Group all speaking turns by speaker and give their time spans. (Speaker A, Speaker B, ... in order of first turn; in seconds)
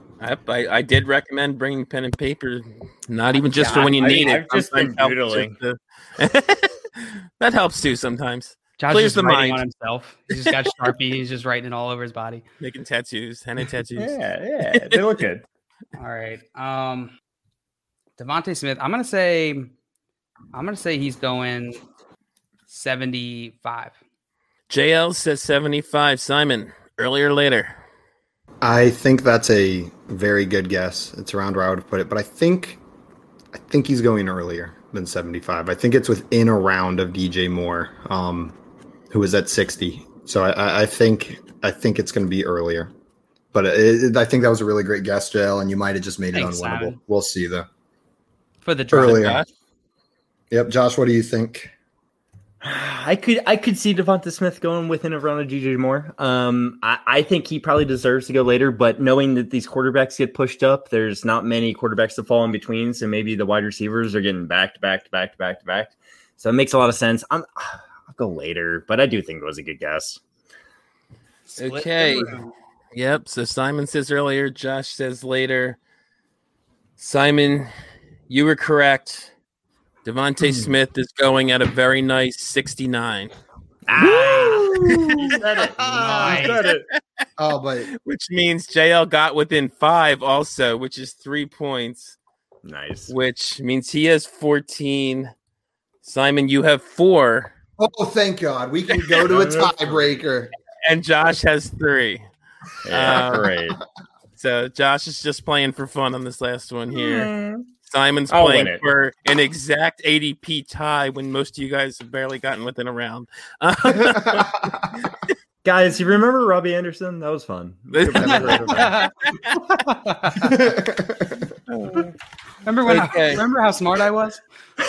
Speaker A: 0.2-9.6, 12.6-14.2, 14.7-15.0, 24.7-27.7, 49.1-49.5, 71.6-72.4, 72.9-75.8, 77.0-77.7, 78.3-79.3, 80.0-83.3, 84.9-85.4, 86.1-86.8, 88.0-92.2, 93.1-95.3, 96.0-97.5, 100.8-102.3, 102.9-103.6, 104.4-107.3, 107.8-115.1, 117.9-118.9, 121.7-122.1, 122.9-123.4
Speaker B: 3.6-5.6, 14.0-15.4, 52.6-70.2, 80.4-80.7, 83.9-86.8, 92.7-93.1, 99.2-100.0, 102.8-103.8, 106.9-107.7, 108.3-108.8, 115.6-118.9
Speaker C: 8.8-12.4, 16.0-17.1, 18.2-19.7, 20.5-21.8, 22.7-23.9, 46.3-47.0, 48.6-49.4, 71.5-72.5, 83.9-84.7, 85.8-86.6, 118.5-119.1, 119.7-120.6, 122.7-124.4
Speaker D: 28.6-32.8, 33.5-38.6, 39.1-42.9, 43.5-47.7, 48.9-49.4, 50.5-51.7, 87.4-87.9, 97.8-100.5, 114.0-114.9, 118.1-119.0, 120.4-121.5